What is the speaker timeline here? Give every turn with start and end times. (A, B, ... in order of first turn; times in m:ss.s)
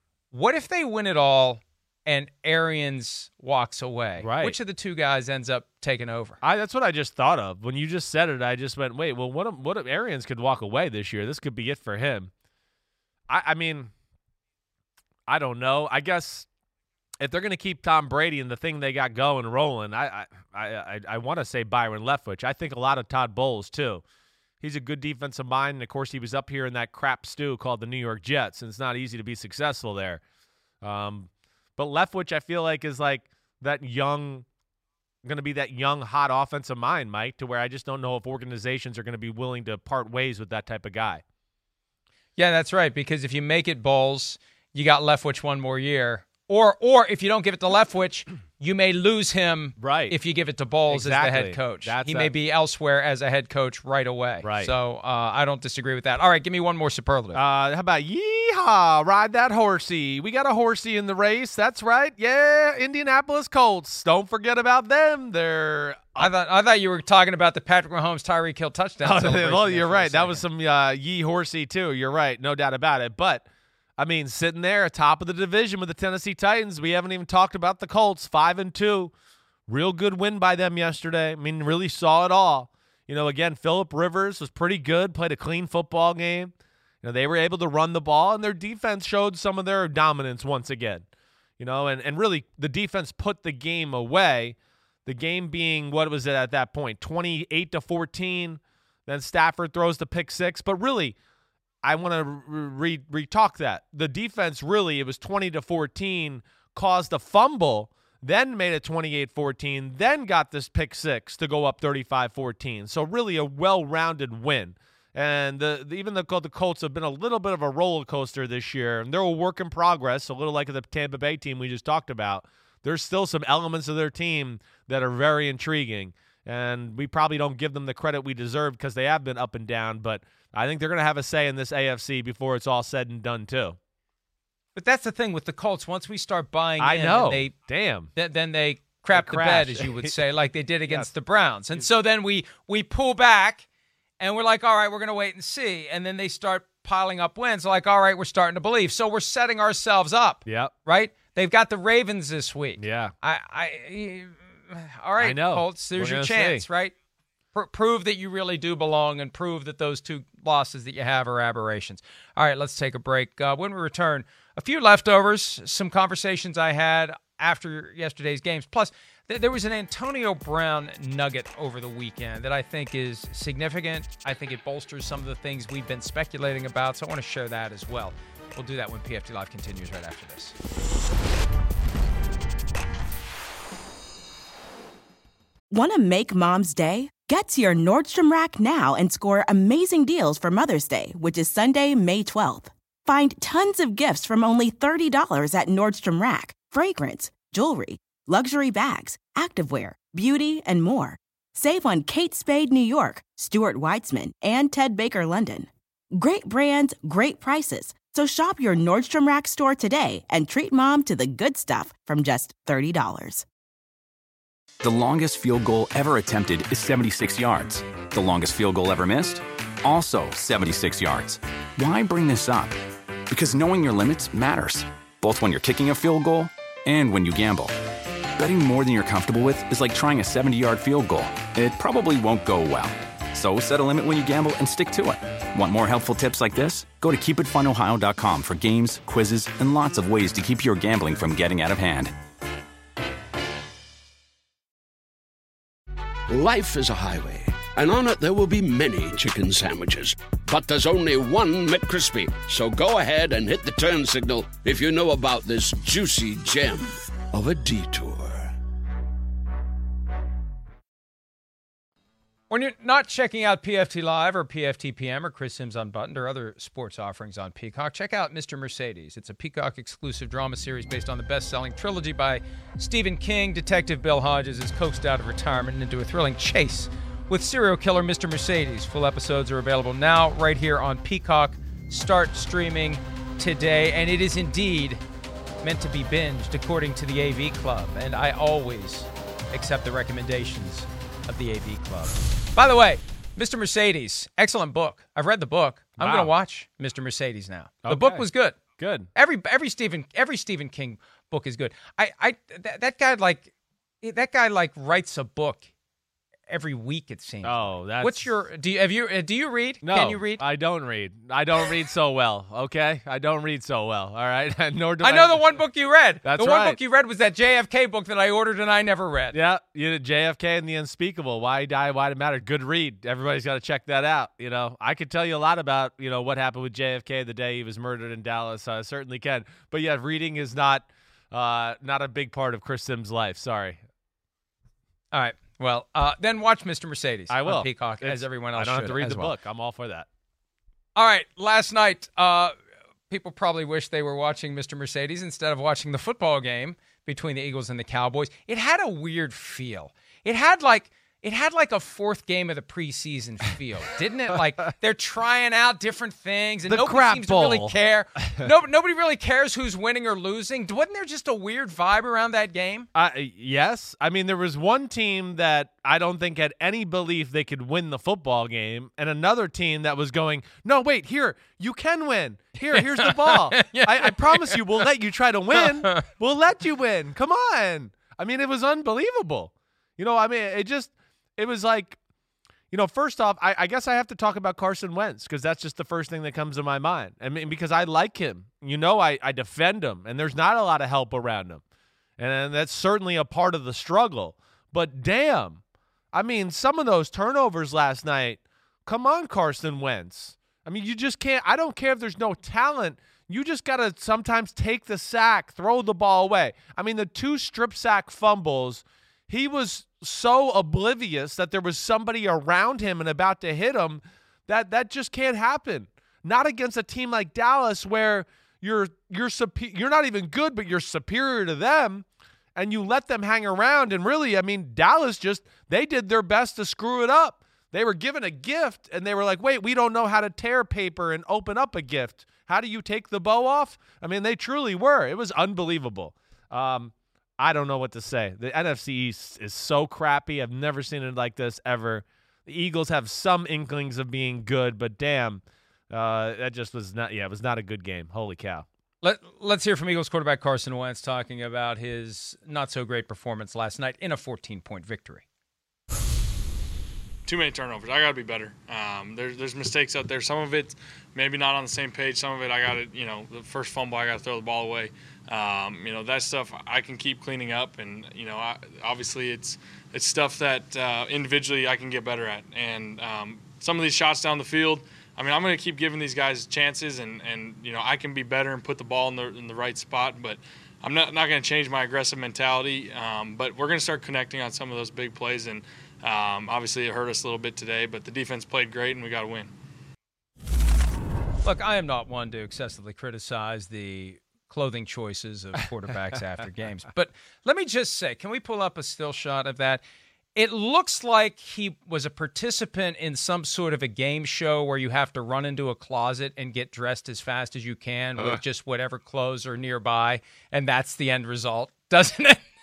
0:00.3-0:06.4 A
0:04.2-0:04.6 B
0:06.4-0:12.3 B
0:13.3-0:13.9 B
0:15.3-0:16.5 B
0:17.2-0:24.0 B
0:24.6-0:30.2 B
0:30.8-0:34.5 B
0:35.2-0:41.2 B
0:42.4-0:57.4 A
0:49.8-0:50.2 B
0:50.9-0:52.3 B
0:54.4-0:54.7 B
0:57.3-1:06.3 B
1:06.2-1:10.4 A
1:09.0-1:13.5 B
1:14.0-1:19.1 B
1:19.7-1:31.0 B
1:31.6-1:41.2 B
1:41.8-2:13.8 B
2:14.8-2:17.5 A
2:16.8-2:18.1 B
2:18.2-2:23.7 A
2:19.1-2:20.2 B
2:24.2-2:36.9 A
2:30.5-2:30.7 B
2:32.8-2:33.1 B
2:35.2-2:36.7 B
2:37.5-3:00.6 A
3:05.7-3:33.5 C
3:34.8-3:42.8 D
3:43.3-3:47.8 D
3:48.4-4:02.1 D
4:06.3-4:18.5 E
4:22.5-4:45.0 A
4:45.6-4:58.6 A
4:56.0-4:56.3 B
4:57.8-4:58.2 B
4:58.8-4:59.1 B
4:59.2-5:03.5 A
5:04.0-5:05.6 A
5:06.5-5:10.4 A
5:07.4-5:08.3 B
5:09.8-5:15.4 B
5:15.0-5:19.4 A
5:16.2-5:16.8 B
5:19.3-5:33.8 B
5:35.1-5:39.3 A
5:37.3-5:40.1 B
5:41.0-5:42.5 A
5:43.1-6:02.9 A
5:56.7-5:57.7 B
6:03.0-6:22.0 B
6:12.7-6:14.8 A
6:15.6-6:16.0 A
6:22.7-6:31.6 B
6:32.2-6:35.6 B
6:36.1-7:28.7 B
7:29.0-7:35.2 A
7:37.2-8:09.5 F
8:11.4-8:19.8 A
8:20.4-8:32.5 A